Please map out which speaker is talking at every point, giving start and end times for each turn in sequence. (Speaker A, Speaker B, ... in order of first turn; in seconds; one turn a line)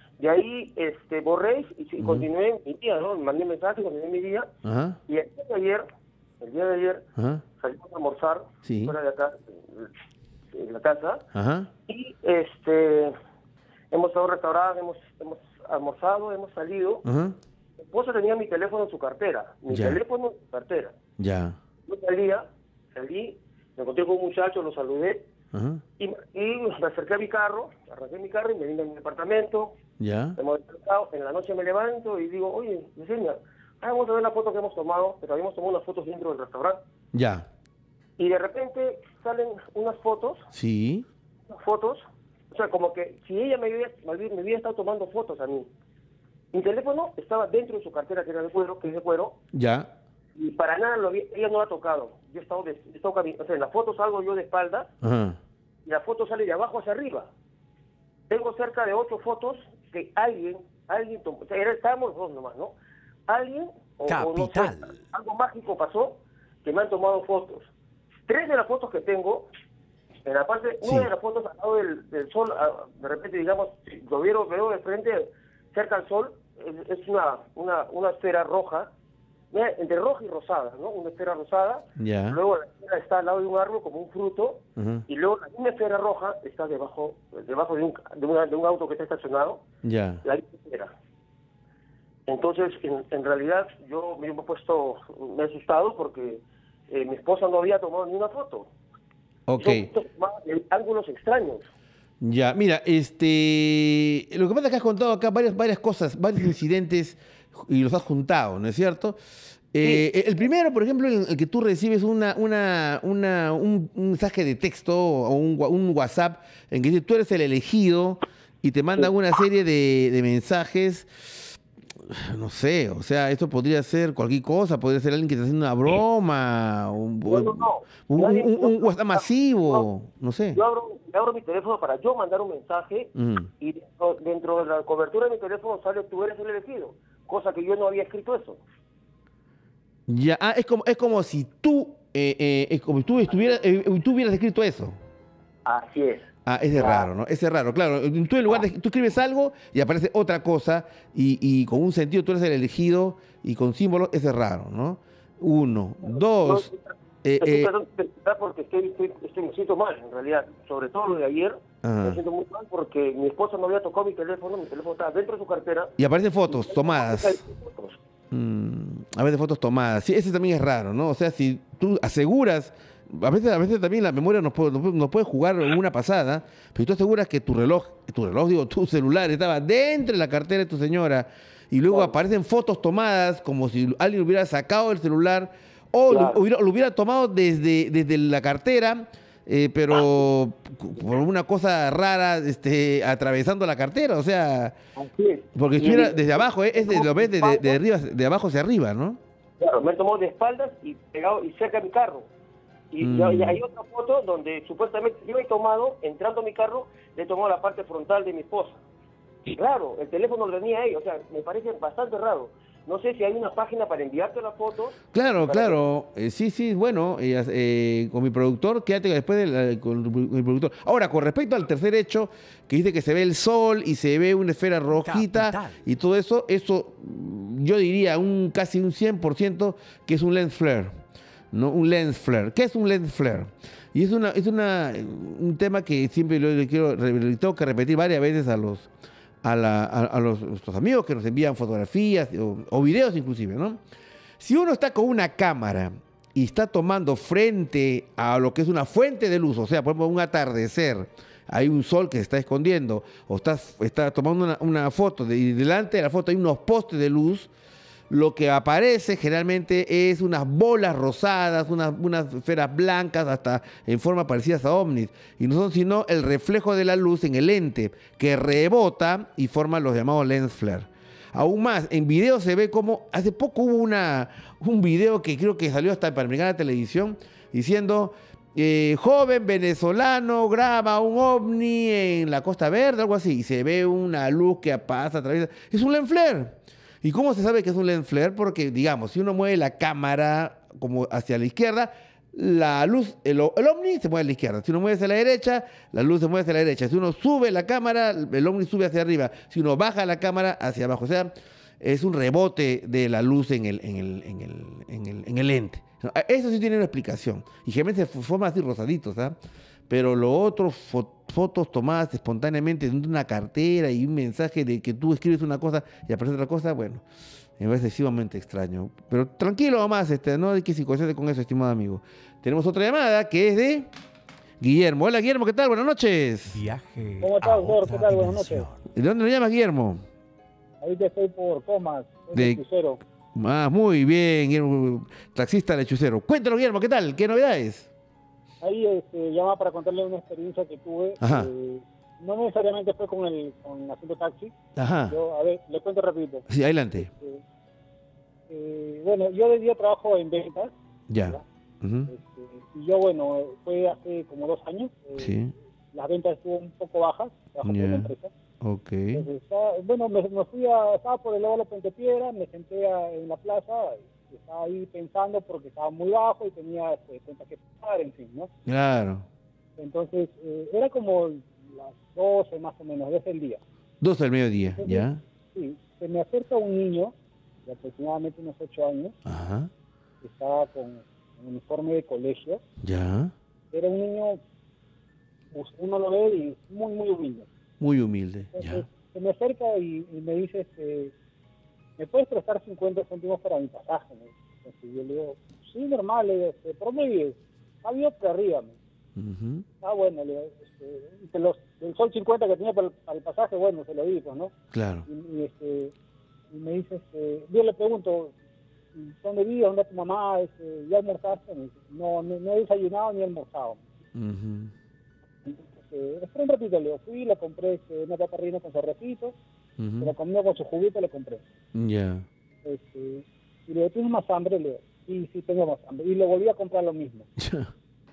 Speaker A: 0.2-4.5
Speaker B: 2.0-2.2
Speaker B: 4.6-5.0
Speaker A: 5.1-5.8
Speaker A: 6.4-7.0
Speaker B: 7.2-7.4
Speaker A: 7.6-9.9
Speaker B: 8.6-8.9
Speaker A: 10.5-11.2
Speaker B: 11.3-11.7
Speaker A: 11.9-13.1
Speaker A: 13.9-17.0
Speaker B: 17.0-17.4
Speaker A: 17.8-20.9
Speaker B: 19.7-20.0
Speaker B: 21.2-21.6
Speaker A: 21.9-25.3
Speaker B: 25.5-25.8
Speaker A: 26.0-29.8
Speaker B: 30.0-30.4
Speaker A: 30.4-36.8
Speaker B: 37.1-37.5
Speaker A: 38.2-40.5
Speaker B: 40.5-41.1
Speaker A: 41.5-45.7
Speaker A: 46.5-49.4
Speaker B: 49.5-49.9
Speaker A: 50.4-54.9
Speaker B: 55.0-55.4
Speaker A: 55.9-57.3
Speaker A: 58.3-62.7
Speaker A: 63.3-67.7
Speaker C: 64.1-65.0
Speaker A: 68.3-69.5
Speaker A: 70.2-78.9
Speaker A: 79.5-89.6
Speaker B: 82.0-82.4
Speaker B: 84.8-85.0
Speaker B: 89.8-90.2
Speaker A: 90.2-90.9
Speaker A: 92.3-98.7
Speaker B: 99.5-99.9
Speaker A: 99.6-101.6
Speaker B: 102.2-109.2
Speaker B: 109.7-130.6
Speaker A: 127.2-129.8
Speaker A: 130.5-138.6
Speaker B: 133.1-133.5
Speaker B: 140.1-145.0
Speaker A: 145.7-146.2
Speaker B: 146.4-156.7
Speaker A: 146.7-147.1
Speaker A: 156.0-165.9
Speaker B: 157.2-157.7
Speaker B: 161.8-162.2
Speaker B: 166.0-167.4
Speaker A: 166.5-168.0
Speaker B: 168.3-194.8
Speaker A: 181.9-182.2
Speaker A: 186.1-186.4
Speaker B: 195.5-199.2
Speaker A: 195.8-197.8
Speaker A: 199.6-202.3
Speaker A: 202.9-208.8
Speaker B: 203.0-203.6
Speaker A: 209.4-215.8
Speaker B: 215.1-231.0
Speaker C: 224.9-225.8
Speaker B: 231.5-238.9
Speaker B: 239.4-243.8
Speaker B: 244.4-257.5
Speaker B: 258.1-309.4
Speaker B: 309.9-317.0
Speaker B: 317.6-323.9
Speaker B: 324.6-326.6
Speaker C: 326.5-328.8
Speaker D: 327.2-328.7
Speaker B: 328.9-330.0
Speaker D: 330.8-333.0
Speaker B: 332.3-332.6
Speaker B: 333.3-337.9
Speaker D: 338.6-344.5
Speaker B: 341.2-341.5
Speaker B: 344.8-345.2
Speaker D: 345.1-346.4
Speaker B: 346.5-347.1
Speaker D: 347.0-347.4
Speaker D: 348.5-350.7
Speaker B: 351.1-352.1
Speaker D: 352.1-358.3
Speaker B: 355.1-355.5
Speaker B: 357.6-359.3
Speaker D: 359.1-368.5
Speaker B: 368.6-369.2
Speaker D: 369.8-373.6
Speaker B: 374.0-375.2
Speaker D: 374.6-377.1
Speaker D: 377.6-379.1
Speaker B: 379.2-379.7
Speaker D: 380.2-382.6
Speaker B: 382.8-383.3
Speaker D: 383.7-384.4
Speaker D: 385.5-387.5
Speaker B: 387.8-388.8
Speaker D: 388.5-391.1
Speaker D: 392.0-398.8
Speaker B: 399.1-399.6
Speaker D: 399.8-404.5
Speaker B: 404.7-405.1
Speaker D: 405.1-405.9
Speaker D: 406.5-408.3
Speaker D: 408.9-413.8
Speaker B: 414.1-414.7
Speaker D: 415.4-419.4
Speaker B: 419.8-420.1
Speaker D: 420.0-421.4
Speaker B: 421.7-422.2
Speaker D: 422.6-427.3
Speaker B: 427.4-427.7